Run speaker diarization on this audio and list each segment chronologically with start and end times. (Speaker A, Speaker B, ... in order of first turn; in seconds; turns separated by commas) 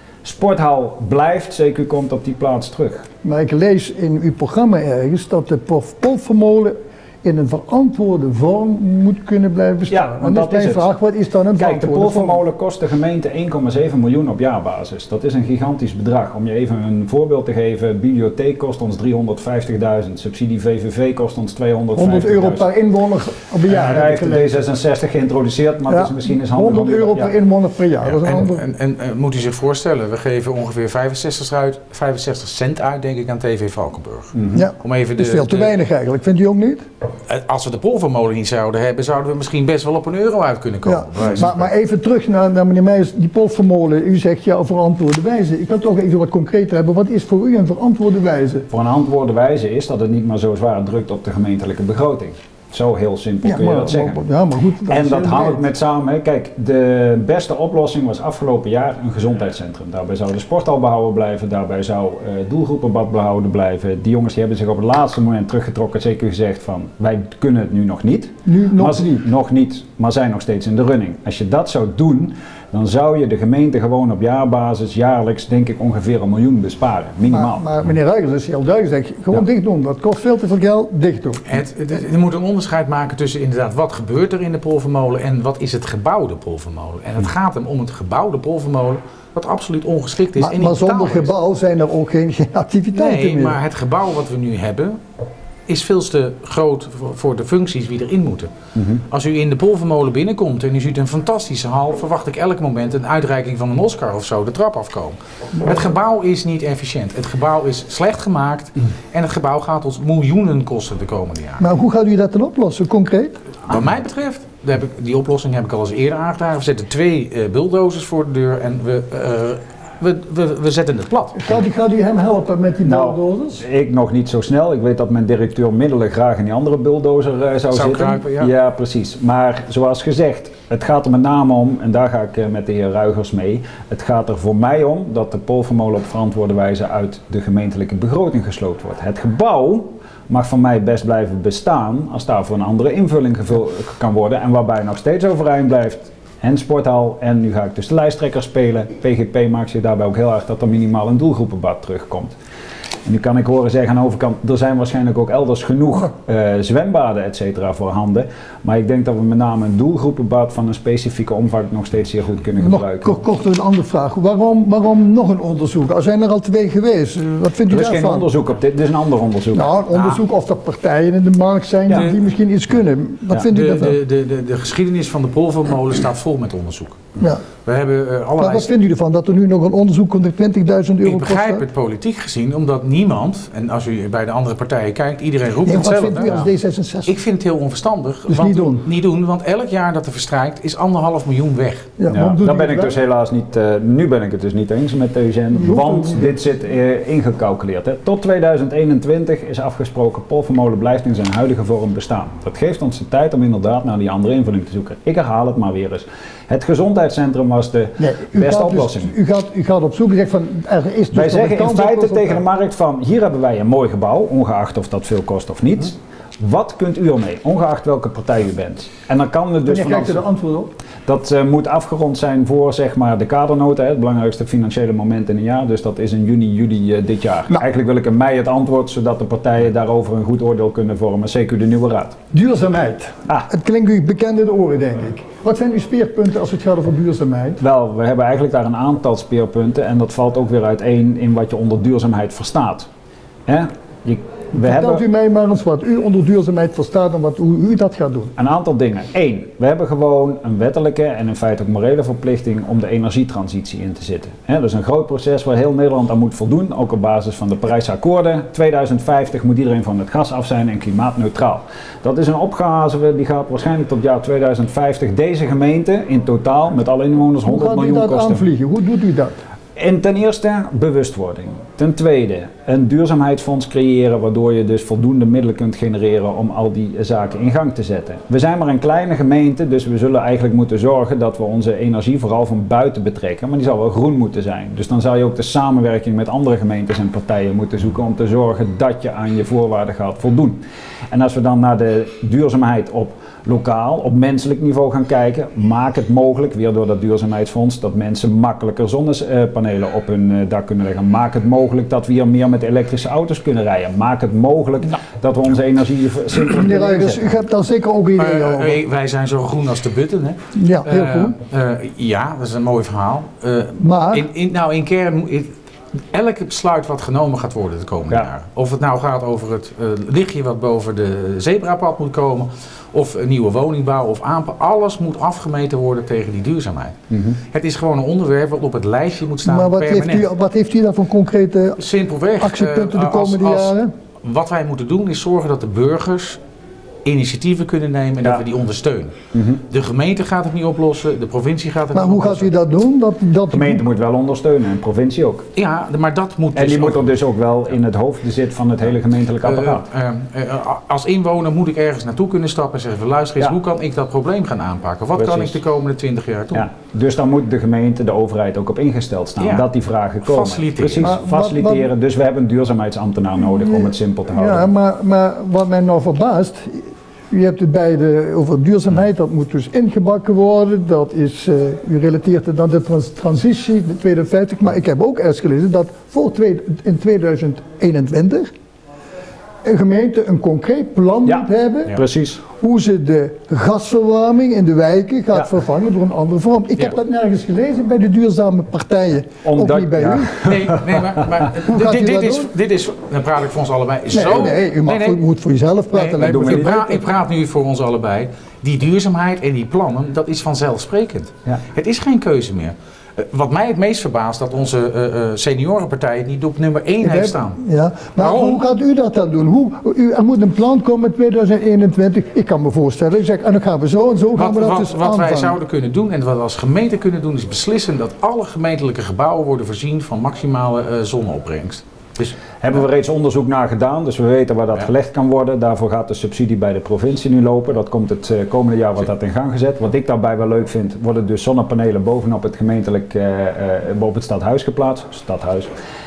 Speaker A: 0.2-3.1, Speaker B: 3.2-12.4, Speaker A: 9.9-10.8, Speaker A: 11.6-22.6, Speaker B: 21.9-24.6, Speaker A: 23.7-27.3, Speaker B: 25.9-28.6, Speaker C: 28.0-35.7, Speaker A: 34.4-34.6, Speaker B: 34.5-36.8, Speaker C: 37.3-41.6, Speaker B: 40.8-48.7, Speaker A: 48.7-54.2, Speaker B: 53.4-55.6, Speaker A: 54.9-77.7, Speaker B: 68.5-69.2, Speaker B: 77.3-81.4, Speaker C: 81.5-91.3, Speaker B: 90.4-93.6, Speaker C: 92.9-95.0, Speaker C: 95.7-98.5, Speaker A: 98.7-99.0, Speaker C: 99.1-111.7, Speaker B: 111.6-113.4, Speaker C: 113.7-121.6, Speaker B: 121.4-123.6, Speaker A: 122.8-152.3, Speaker C: 127.7-128.5, Speaker A: 153.0-163.2, Speaker B: 162.6-168.3, Speaker A: 167.7-169.7, Speaker B: 169.5-174.0, Speaker C: 169.9-170.2, Speaker C: 173.3-177.0, Speaker C: 177.6-178.7, Speaker B: 178.4-181.6, Speaker C: 181.0-186.4, Speaker B: 185.7-187.1, Speaker C: 187.1-191.9, Speaker B: 188.3-188.9, Speaker B: 192.0-192.9, Speaker A: 192.1-209.1, Speaker B: 195.5-196.3, Speaker B: 208.0-212.4, Speaker A: 211.1-220.2, Speaker B: 219.7-220.7, Speaker A: 221.1-232.2, Speaker B: 232.3-237.6, Speaker A: 237.6-242.9, Speaker A: 243.4-245.0, Speaker B: 244.5-248.3, Speaker A: 248.4-268.5, Speaker B: 267.4-269.4, Speaker A: 269.8-307.3, Speaker B: 306.5-308.8, Speaker C: 308.2-315.5, Speaker B: 310.5-311.3, Speaker B: 313.8-314.3, Speaker C: 316.1-327.0, Speaker A: 327.1-327.4, Speaker C: 327.5-330.3, Speaker B: 329.4-331.8, Speaker C: 331.8-336.4, Speaker B: 332.4-333.9, Speaker C: 337.0-339.1, Speaker A: 339.3-339.6, Speaker C: 339.7-342.5, Speaker B: 341.9-343.8, Speaker A: 343.5-345.5, Speaker C: 345.6-347.1, Speaker A: 346.5-349.9, Speaker C: 349.4-356.7, Speaker A: 355.1-355.6, Speaker A: 356.5-364.7, Speaker C: 359.4-359.7, Speaker C: 360.2-361.1, Speaker B: 361.0-361.9, Speaker B: 363.4-378.5, Speaker B: 379.6-390.4, Speaker A: 381.2-382.4, Speaker A: 389.4-391.3, Speaker C: 390.4-395.2, Speaker B: 391.6-392.5, Speaker B: 394.1-397.0, Speaker C: 395.9-407.6, Speaker A: 396.2-396.8, Speaker B: 407.0-415.6, Speaker C: 408.2-408.6, Speaker C: 414.4-422.4, Speaker A: 422.6-435.7